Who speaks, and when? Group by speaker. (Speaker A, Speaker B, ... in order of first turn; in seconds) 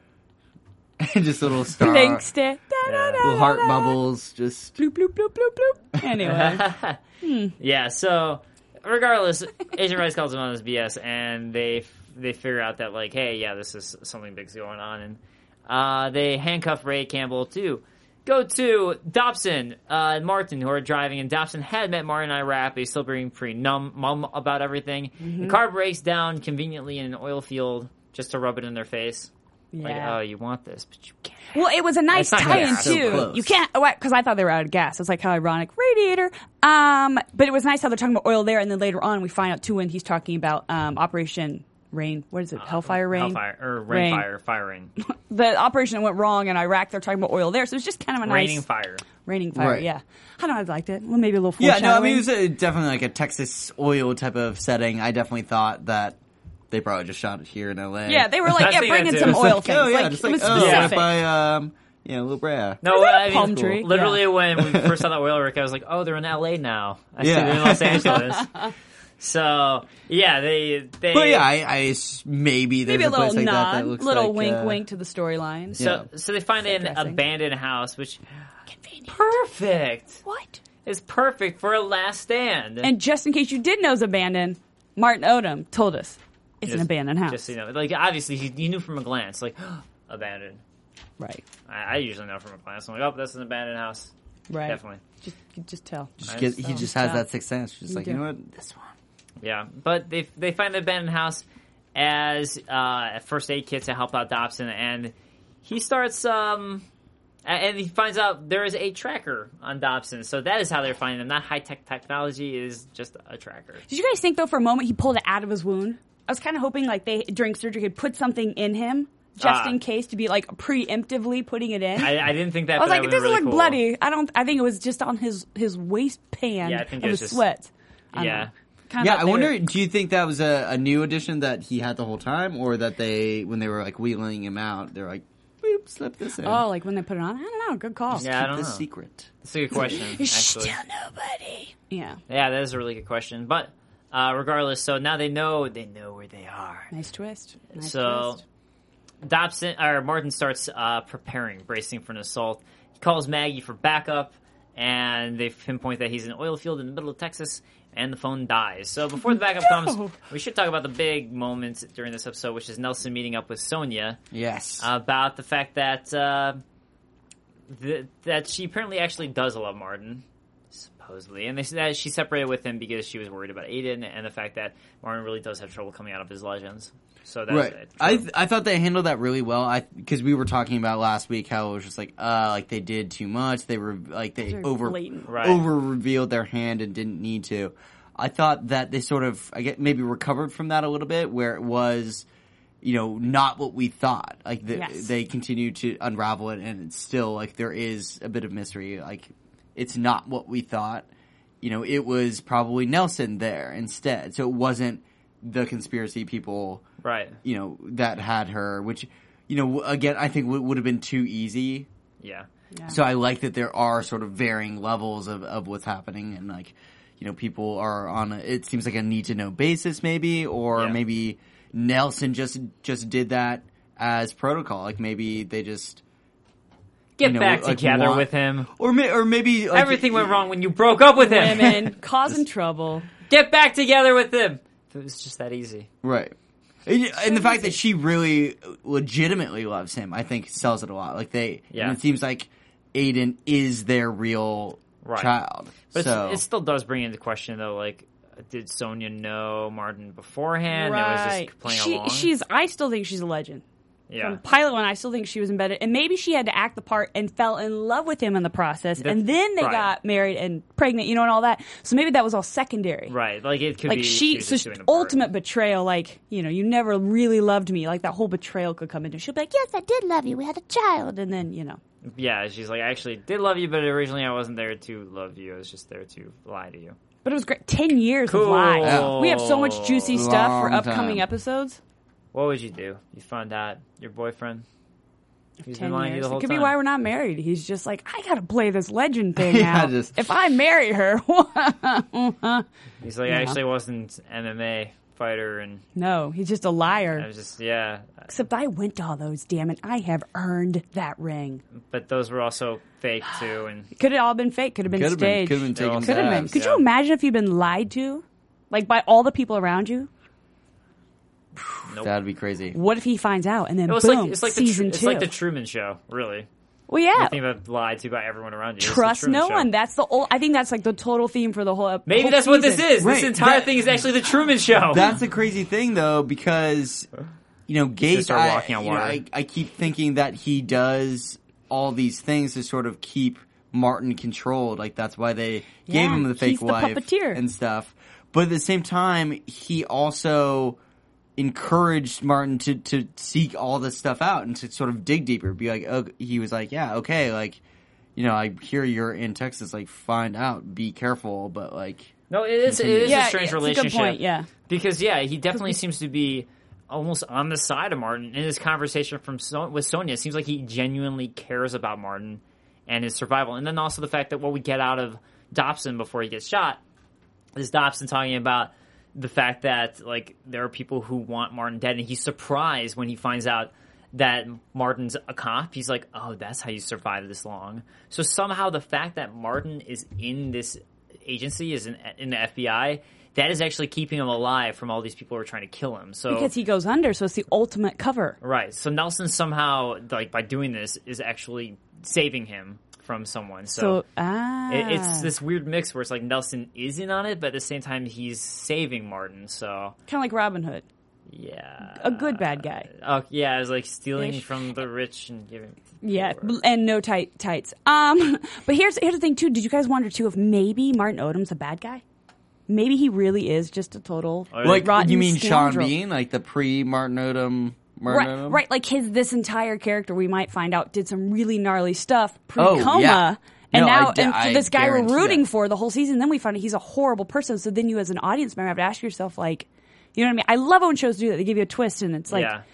Speaker A: 1.0-2.3, 3.2-4.8, 32.4-33.6, 49.5-49.9, 51.6-56.2, 56.7-63.9, 64.5-65.0, 67.2-68.4, 71.1-74.8, 75.8-76.0, 96.2-98.9, 129.0-136.7, 138.1-139.3, 164.3-164.9, 177.5-192.2, 192.8-201.1, 201.6-206.8, 207.4-211.9, 212.9-226.0, 227.2-230.4, 231.4-232.4, 236.0-236.3, 236.9-246.4, 278.8-279.4, 280.1-281.2, 289.4-290.2, 304.9-306.6, 311.6-312.8, 323.0-323.7, 324.9-327.1, 327.7-340.8, 341.4-347.6, 348.2-352.1, 352.7-353.2, 414.6-418.6, 422.6-425.5
Speaker B: 1.8-4.0, 4.8-6.7, 7.2-7.5, 25.2-25.6, 29.7-30.2, 31.5-44.3, 45.0-52.2, 58.1-61.2, 62.9-64.3, 72.9-75.8, 76.6-77.2, 78.7-79.3, 80.2-80.6, 82.8-87.4, 91.2-91.4, 94.5-97.2, 97.9-98.2, 113.9-129.6, 136.4-138.3, 139.8-142.2, 146.9-148.4, 159.3-160.2, 184.5-185.3, 194.8-195.1, 231.2-233.1, 237.3-237.8, 250.7-253.6, 254.2-263.1, 263.9-271.8, 277.2-281.8, 285.6-292.6, 293.3-293.6, 296.0-297.3, 298.3-301.6, 303.9-310.1, 312.7-315.3, 316.9-317.4, 318.8-322.9, 335.9-337.4, 353.1-354.5, 386.3-388.4, 393.7-395.3, 400.1-400.9, 401.9-402.9, 404.2-404.4, 406.0-412.0, 412.7-415.9, 418.1-432.5
Speaker C: 2.8-3.3, 6.2-7.0, 7.6-31.6, 32.1-33.3, 42.6-44.9, 48.2-49.1, 58.5-59.6, 60.4-61.0, 62.8-68.5, 69.2-71.5, 75.8-78.2, 79.1-80.2, 80.8-82.9, 86.6-90.6, 91.7-94.1, 94.7-95.0, 96.3-96.8, 99.4-101.4, 102.0-106.8, 107.5-113.8, 119.4-119.8, 122.0-123.8, 126.6-127.5, 128.1-128.5, 138.2-138.8, 139.4-140.8, 142.3-146.9, 147.7-148.4, 149.2-164.2, 164.8-166.6, 167.7-178.3, 185.3-185.6, 207.0-207.4, 212.2-212.5, 227.2-228.7, 229.7-231.8, 233.3-235.9, 241.7-242.0, 245.0-245.3, 245.9-252.3, 254.1-254.4, 259.0-259.9, 263.1-265.2, 272.1-277.0, 278.3-280.3, 282.3-284.6, 285.6-286.7, 293.0-295.8, 297.1-298.3, 301.7-303.9, 305.7-306.9, 311.8-312.1, 313.9-316.5, 317.1-319.7, 322.1-325.1, 328.1-329.2, 352.3-366.8, 367.6-386.5, 388.4-394.0, 394.7-399.9, 401.3-406.6, 414.5-415.0, 432.3-432.6